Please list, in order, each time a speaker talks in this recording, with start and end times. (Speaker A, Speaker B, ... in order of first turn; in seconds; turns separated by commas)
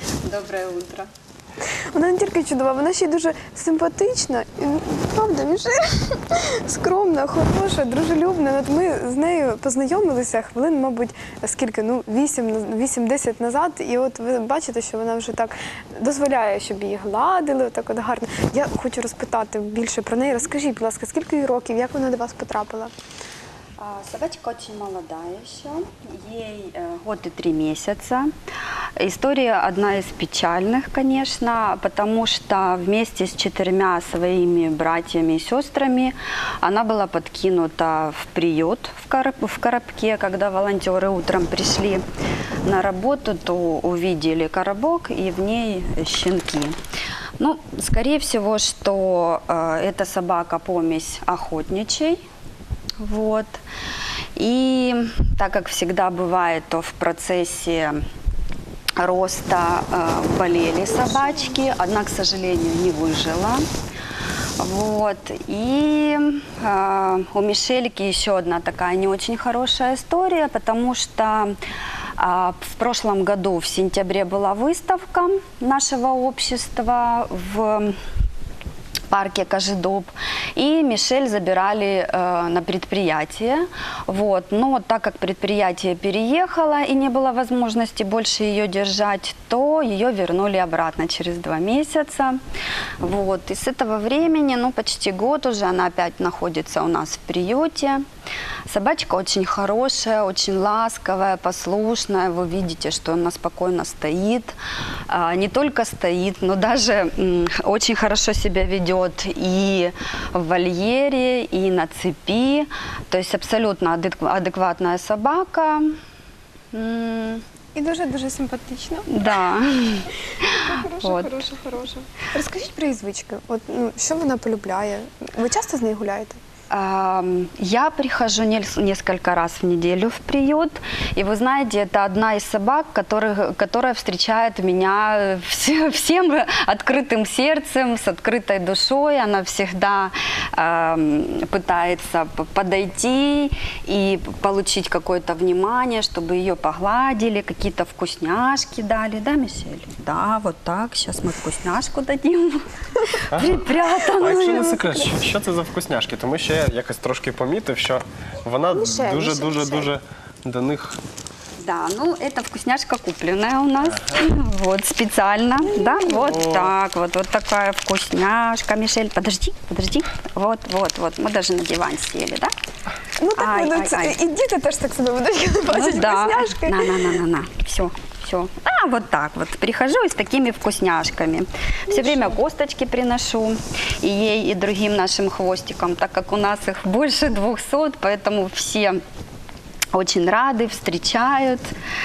Speaker A: 0.2-1.1, Speaker B: 1.9-22.9, Speaker A: 23.8-28.3, Speaker A: 29.0-42.0, Speaker A: 42.6-46.8, Speaker A: 47.4-52.2, Speaker A: 53.0-53.6, Speaker A: 54.4-58.0, Speaker A: 59.0-63.6, Speaker A: 64.6-71.5, Speaker A: 72.2-77.9, Speaker A: 79.1-92.4, Speaker A: 93.0-98.0, Speaker A: 98.7-104.5, Speaker A: 105.1-115.9, Speaker A: 116.7-117.4, Speaker B: 117.7-119.4, Speaker A: 119.1-121.4, Speaker B: 120.4-126.4, Speaker A: 126.7-154.9, Speaker C: 153.3-161.0, Speaker B: 158.7-159.9, Speaker A: 161.6-172.5, Speaker B: 165.7-166.4, Speaker B: 173.2-177.2, Speaker A: 173.4-174.2, Speaker A: 175.7-189.0, Speaker B: 181.9-182.4, Speaker A: 189.9-191.7